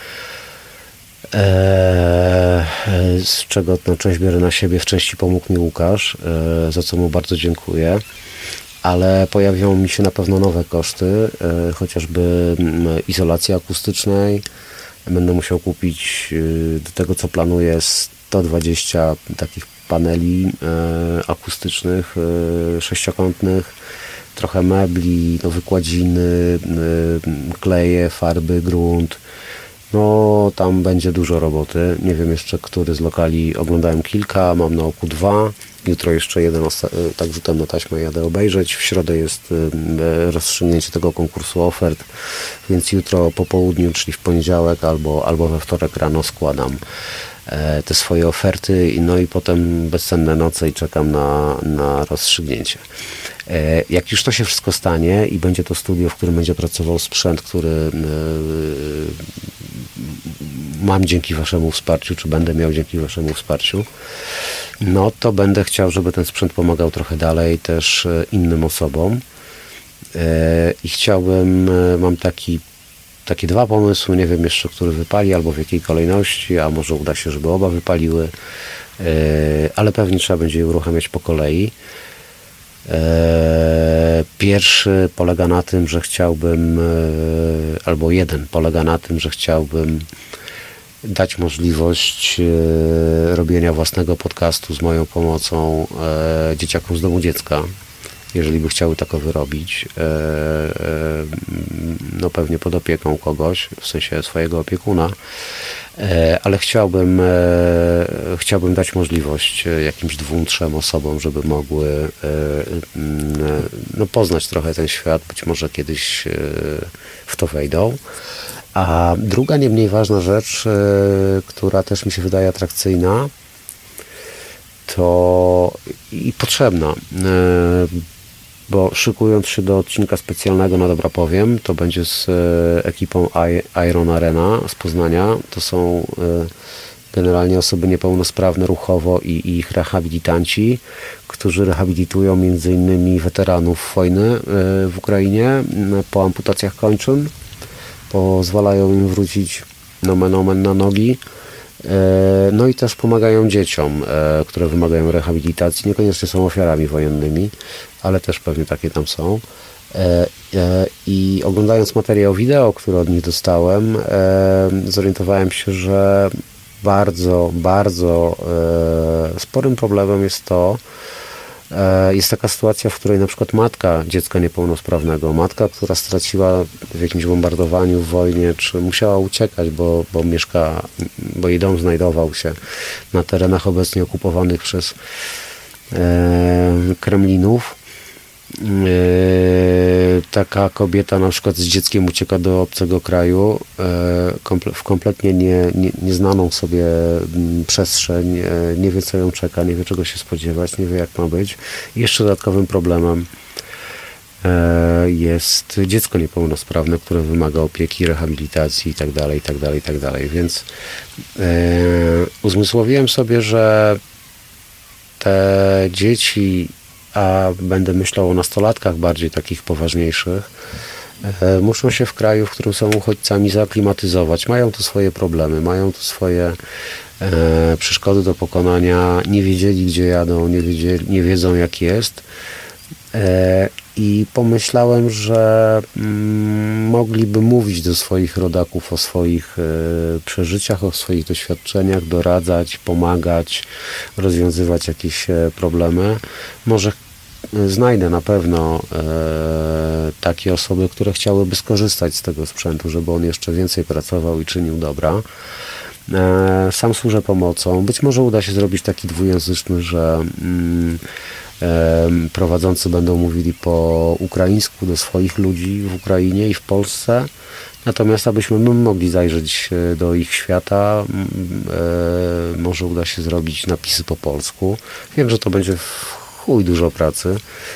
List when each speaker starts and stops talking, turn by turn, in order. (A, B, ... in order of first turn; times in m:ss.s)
0:01.3-0:08.0 A
0:08.8-0:14.4 A
0:15.0-0:23.7 A
0:24.3-0:29.2 A
0:29.9-0:42.1 A
0:42.6-0:46.8 A
0:47.5-0:52.8 A
0:53.5-0:59.3 A
1:00.0-1:03.9 A
1:04.8-1:09.2 A
1:10.1-1:12.6 A
1:13.2-1:18.3 A
1:19.0-1:21.7 A
1:22.9-1:30.1 A
1:31.0-1:37.7 A
1:38.3-1:45.1 A
1:46.0-1:58.0 A
1:58.7-2:03.3 A
2:04.8-2:08.0 A
2:08.7-2:16.5 A
2:17.1-2:27.3 A
2:28.1-2:31.2 A
2:31.8-2:50.8 A
2:51.7-3:02.5 A
3:03.1-3:05.0 A
3:05.9-3:07.8 A
3:08.5-3:23.3 A
3:24.4-3:30.7 A
3:31.4-3:34.0 A
3:35.2-3:40.5 A
3:41.2-3:46.6 A
3:47.2-3:52.2 A
3:53.1-4:03.6 A
4:04.2-4:07.0 A
4:07.5-4:15.2 A
4:16.1-4:21.0 A
4:21.6-4:27.3 A
4:27.8-4:37.4 A